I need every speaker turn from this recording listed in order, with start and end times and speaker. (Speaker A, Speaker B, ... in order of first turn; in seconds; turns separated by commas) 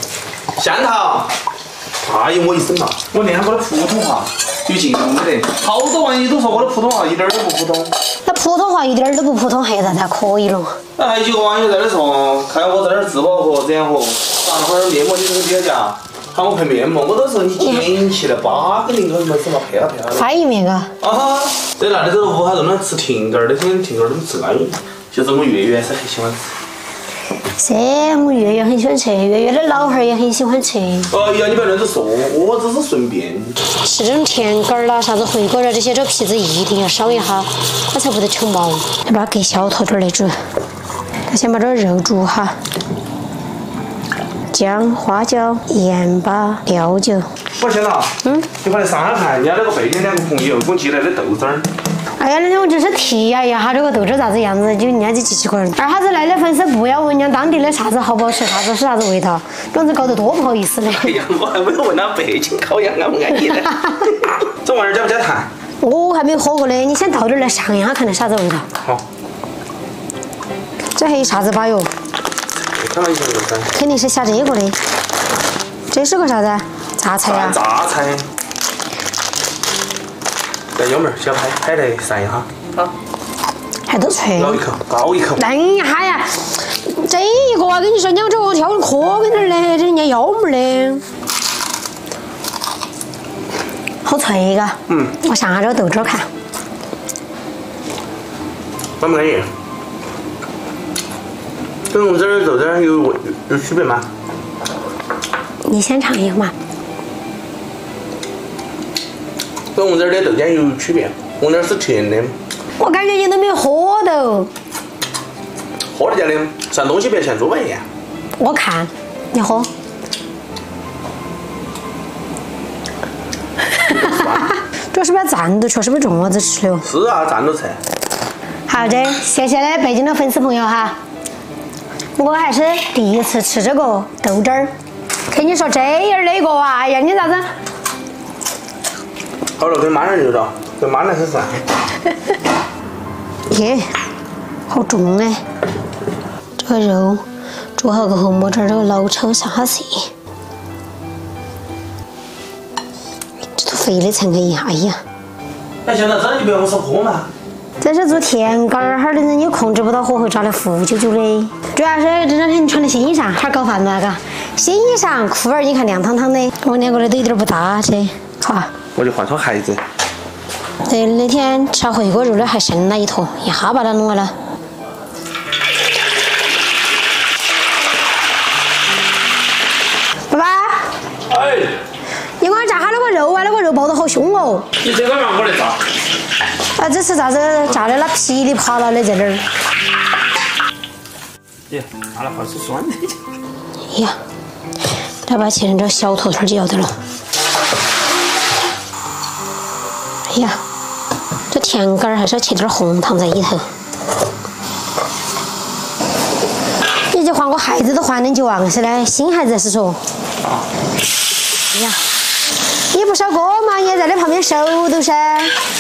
Speaker A: 0.6-1.3, Speaker A: 2.0-7.9, Speaker B: 8.3-10.8, Speaker A: 11.0-20.3, Speaker B: 17.6-17.9, Speaker B: 20.2-20.9, Speaker A: 21.0-26.5, Speaker B: 27.6-31.1, Speaker A: 31.1-33.6, Speaker B: 33.8-40.4, Speaker B: 41.3-42.6, Speaker B: 44.5-47.3, Speaker A: 47.6-51.7, Speaker B: 52.2-61.1, Speaker A: 60.9-65.5, Speaker B: 65.8-68.7, Speaker B: 71.0-71.9, Speaker A: 72.6-73.7, Speaker B: 73.8-74.8, Speaker B: 75.9-77.6, Speaker A: 77.2-78.3, Speaker A: 80.8-82.5, Speaker B: 83.9-84.6, Speaker A: 84.4-85.4, Speaker B: 85.4-91.0, Speaker B: 94.0-96.3, Speaker A: 94.9-95.2, Speaker A: 99.0-99.5, Speaker A: 101.9-104.1, Speaker B: 105.7-106.5, Speaker A: 109.8-112.4, Speaker B: 112.8-114.5, Speaker A: 116.0-117.8, Speaker B: 118.4-119.7, Speaker B: 123.9-126.8, Speaker A: 123.9-124.5, Speaker A: 126.8-127.8, Speaker B: 128.7-131.0, Speaker B: 132.2-134.7, Speaker B: 135.3-137.5, Speaker A: 139.6-141.7, Speaker B: 143.5-143.9, Speaker B: 144.7-145.4, Speaker B: 146.6-147.2, Speaker B: 147.8-150.1, Speaker B: 153.5-155.0, Speaker A: 155.9-157.3, Speaker B: 157.8-168.7, Speaker A: 168.9-169.8, Speaker B: 170.8-174.3, Speaker B: 180.3-180.9, Speaker A: 181.3-181.7, Speaker B: 182.4-184.7, Speaker A: 184.8-185.8, Speaker B: 186.8-189.5, Speaker A: 191.7-193.2, Speaker B: 193.9-194.2, Speaker B: 195.3-197.0, Speaker B: 200.3-200.6, Speaker B: 201.5-203.7, Speaker B: 207.1-210.1, Speaker B: 211.7-212.0, Speaker B: 212.9-215.6